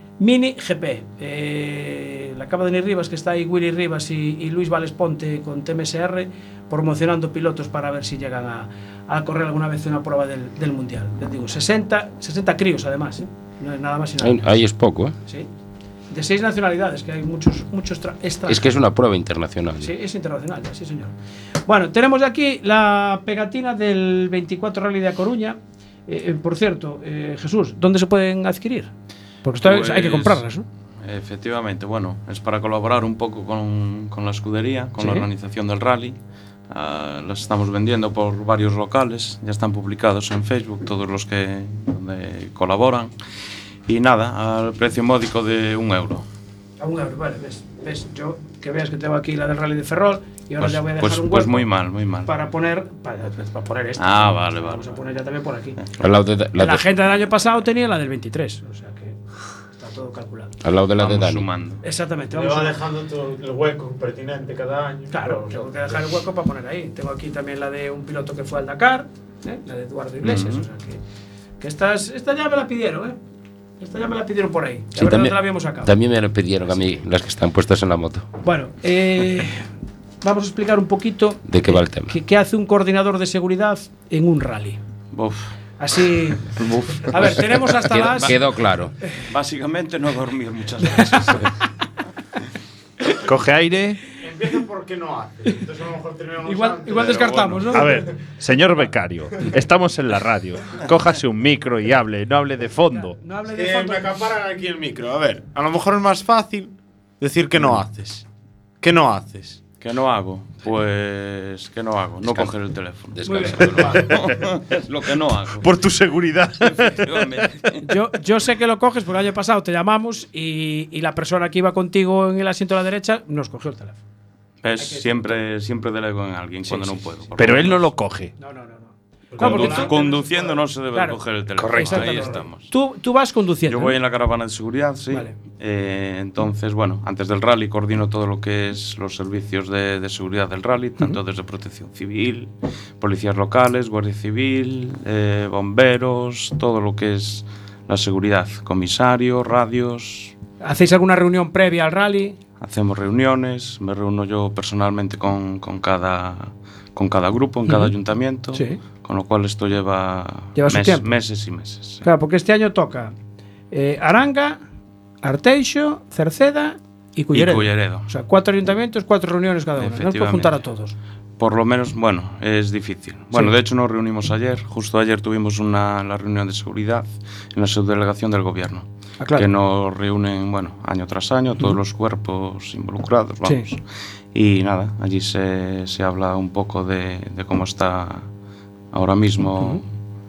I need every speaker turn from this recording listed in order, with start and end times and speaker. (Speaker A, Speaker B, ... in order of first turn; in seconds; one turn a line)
Speaker A: 0.2-14.5
Speaker B: 14.2-15.1
Speaker A: 16.1-18.6
Speaker B: 18.5-19.9
Speaker A: 19.8-21.1
Speaker A: 21.6-28.9
Speaker A: 29.4-30.6
Speaker C: 29.6-30.4
Speaker C: 31.0-36.2
Speaker A: 35.0-35.3
Speaker C: 36.7-43.1
Speaker C: 43.9-46.2
Speaker A: 46.8-51.7
Speaker C: 50.6-52.3
Speaker A: 52.2-55.8
Speaker C: 54.0-54.8
Speaker B: 56.0-56.8
Speaker A: 56.6-59.2
Speaker A: 59.8-60.5
Speaker B: 60.6-61.5
Speaker C: 61.0-61.8
Speaker A: 61.8-62.8
Speaker D: 62.3-66.0
Speaker A: 65.1-71.0
Speaker C: 70.2-70.6
Speaker A: 71.6-73.2
Speaker A: 73.8-75.9
Speaker B: 75.0-78.2
Speaker A: 78.4-79.7
Speaker A: 80.2-84.8
Speaker B: 81.5-82.1
Speaker C: 85.1-85.5
Speaker A: 85.8-88.4
Speaker C: 86.5-88.3
Speaker B: 87.2-88.9
Speaker C: 89.2-91.5
Speaker A: 90.9-91.3
Speaker E: 93.2-94.0
Speaker D: 94.1-97.5
Speaker A: 96.4-98.1
Speaker C: 97.0-97.7
Speaker E: 97.7-103.2
Speaker A: 102.9-104.1
Speaker D: 103.4-108.2
Speaker D: 108.8-109.6
Speaker C: 109.8-115.7
Speaker B: 112.2-112.5
Speaker B: 113.1-114.1
Speaker A: 113.2-114.1
Speaker E: 115.6-117.3
Speaker C: 116.6-117.8
Speaker A: 117.8-124.0
Speaker C: 124.6-127.8
Speaker A: 124.8-125.3
Speaker E: 127.4-128.3
Speaker A: 128.4-131.2
Speaker D: 129.3-130.0
Speaker C: 129.4-132.7
Speaker E: 131.6-132.3
Speaker A: 131.7-133.9
Speaker C: 133.7-150.3
Speaker A: 150.6-152.4
Speaker C: 152.6-162.0
Speaker A: 157.7-157.9
Speaker A: 158.5-158.8
Speaker A: 160.5-161.1
Speaker A: 162.0-163.1
Speaker A: 163.7-164.6
Speaker A: 165.2-170.9
Speaker C: 167.3-168.1
Speaker C: 169.8-170.6
Speaker C: 171.4-183.8
Speaker A: 179.2-179.4
Speaker C: 184.3-188.3
Speaker C: 188.9-189.8
Speaker A: 189.6-189.8